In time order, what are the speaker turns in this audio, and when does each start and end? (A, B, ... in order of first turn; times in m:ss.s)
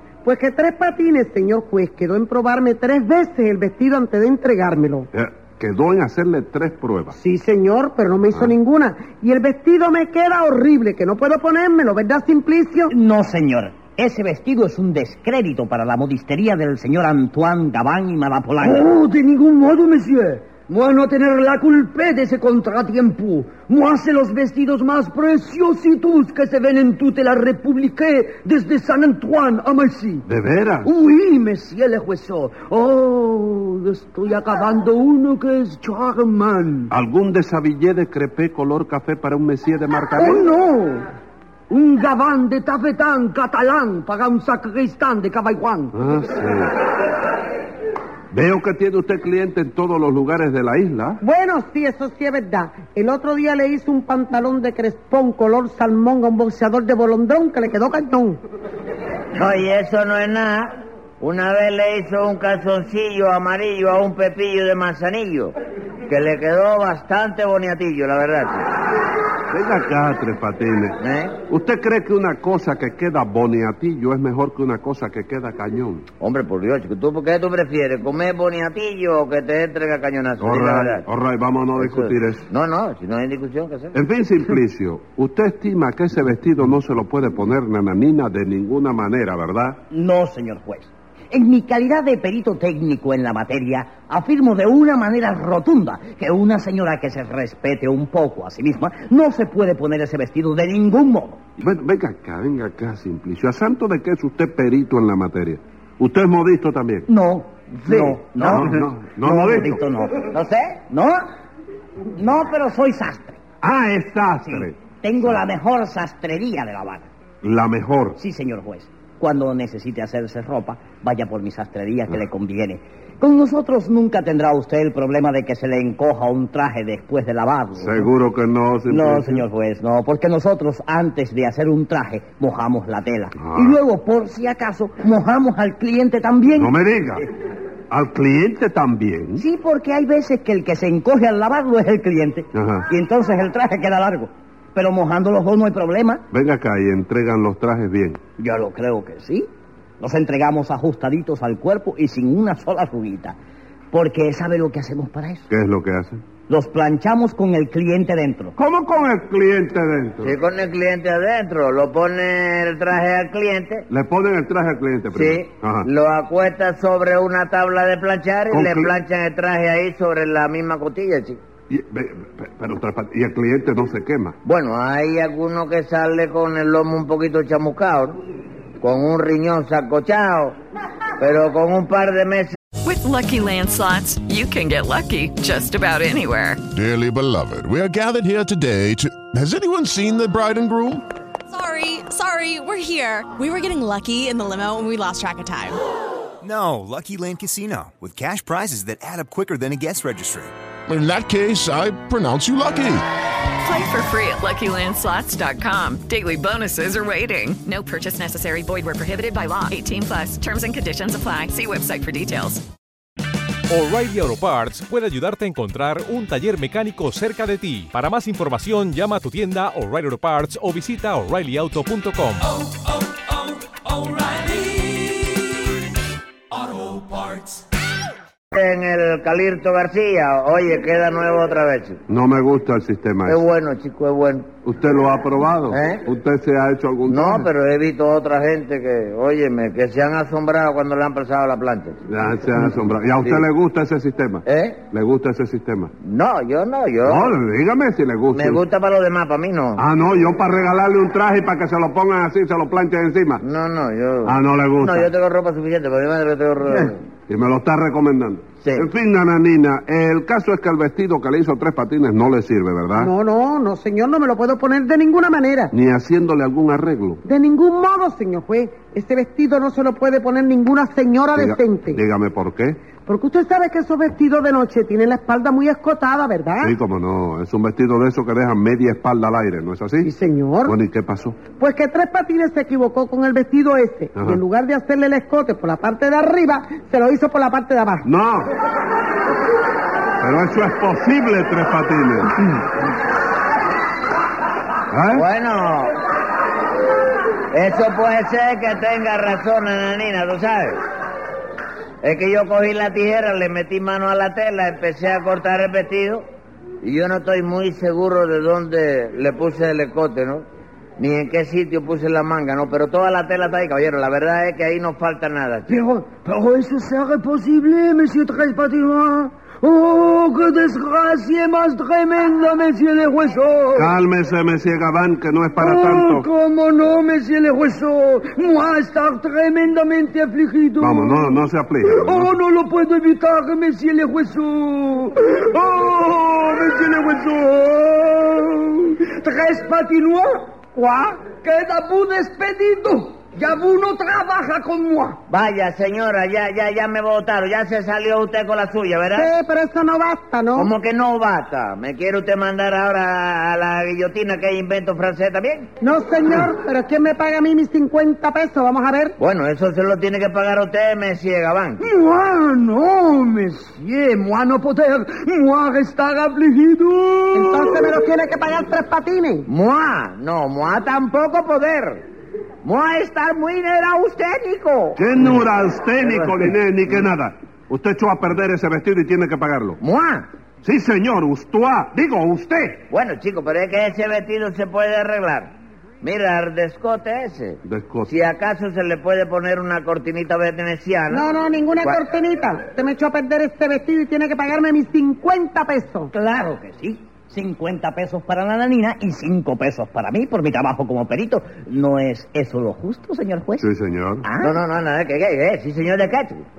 0:00.2-0:05.1 A
0:05.1-0:07.2 B
0:07.1-0:12.9 A
0:12.9-0:18.9 C
0:18.6-0:30.2 D
0:30.3-0:30.9 B
0:30.8-0:36.9 D
0:36.9-0:40.5 B
0:40.2-0:41.1 D
0:41.7-0:46.0 D
0:45.9-0:46.8 B
0:48.3-0:51.2 B
0:51.2-0:58.4 A
0:59.3-1:05.5 E
1:06.1-1:08.7 E
1:09.5-1:11.0 B
1:11.0-1:11.4 E
1:11.5-1:16.1 B
1:16.2-1:21.0 E
1:20.4-1:22.5 B
1:21.8-1:24.0 E
1:23.9-1:29.8 B
1:29.9-1:41.4 C
1:41.6-1:47.1 B
1:47.1-1:50.3 C
1:47.8-1:48.8 E
1:48.4-1:49.8 B
1:50.3-1:50.8 E
1:50.9-1:51.2 C
1:52.1-1:53.4 C
1:53.6-1:55.4 B
1:54.5-1:57.1 C
1:57.4-1:58.2 B
1:58.2-2:08.1 C
2:07.8-2:09.4 B
2:08.9-2:16.7 C
2:13.3-2:13.8 B
2:16.5-2:17.3 B
2:17.9-2:19.4 B
2:19.4-2:26.2 C
2:22.5-2:22.9 B
2:26.3-2:28.2 B
2:28.4-2:29.5 C
2:30.0-2:33.4 C
2:33.9-2:35.5 C
2:35.5-2:36.2 B
2:36.5-2:38.6 C
2:38.6-2:40.4 B
2:40.2-2:43.9 E
2:43.9-2:45.9 B
2:45.1-2:51.4 E
2:48.5-2:48.9 B
2:51.7-2:54.4 B
2:54.4-2:58.2 E
2:58.8-3:00.6 E
3:01.2-3:02.6 E
3:02.8-3:06.6 F
3:06.7-3:11.0 G
3:11.5-3:15.8 H
3:16.4-3:20.5 I
3:20.9-3:23.0 G
3:23.6-3:32.6 F
3:33.7-3:42.5 J
3:48.5-3:52.0 E
3:52.1-3:53.4 B
3:53.2-3:54.5 E
3:54.6-3:57.5 B
3:55.7-3:56.0 E
3:57.1-4:02.0 E
4:02.1-4:05.9 B
4:04.5-4:04.8 E
4:06.0-4:07.4 E
4:07.0-4:08.6 B
4:08.3-4:09.8 E
4:09.8-4:13.4 B
4:13.4-4:17.0 E
4:14.2-4:15.1 B
4:16.8-4:23.1 B
4:18.6-4:18.9 E
4:23.0-4:25.7 A
4:25.7-4:27.2 B
4:27.2-4:32.0 A
4:31.4-4:32.9 B
4:33.0-4:36.8 A
4:36.6-4:40.1 B
4:40.0-4:40.8 A
4:40.6-4:41.4 B
4:41.5-4:48.1 A
4:44.2-4:44.4 B
4:48.0-4:48.5 B
4:50.2-4:52.4 B
4:54.9-4:55.2 B
4:55.1-4:56.0 E
4:57.5-5:00.8 E
5:02.0-5:06.2 E
5:06.8-5:10.4 E
5:11.0-5:15.7 E
5:15.7-5:23.9 D
5:23.8-5:26.3 B
5:25.6-5:45.2 D
5:30.8-5:32.4 B
5:45.3-5:49.3 E
5:49.2-5:50.7 A
5:50.6-5:55.7 E
5:55.8-5:59.2 A
5:59.2-6:01.8 E
6:01.8-6:07.8 D
6:07.3-6:09.5 A
6:09.5-6:12.0 E
6:12.6-6:15.4 E
6:15.0-6:19.8 B
6:16.0-6:16.5 E
6:19.8-6:20.3 E
6:20.6-6:22.8 B
6:22.9-6:31.3 E
6:27.6-6:28.1 B
6:31.1-6:36.1 A
6:36.1-6:43.7 C
6:43.6-6:44.2 B
6:44.2-6:44.6 C
6:44.4-6:46.5 E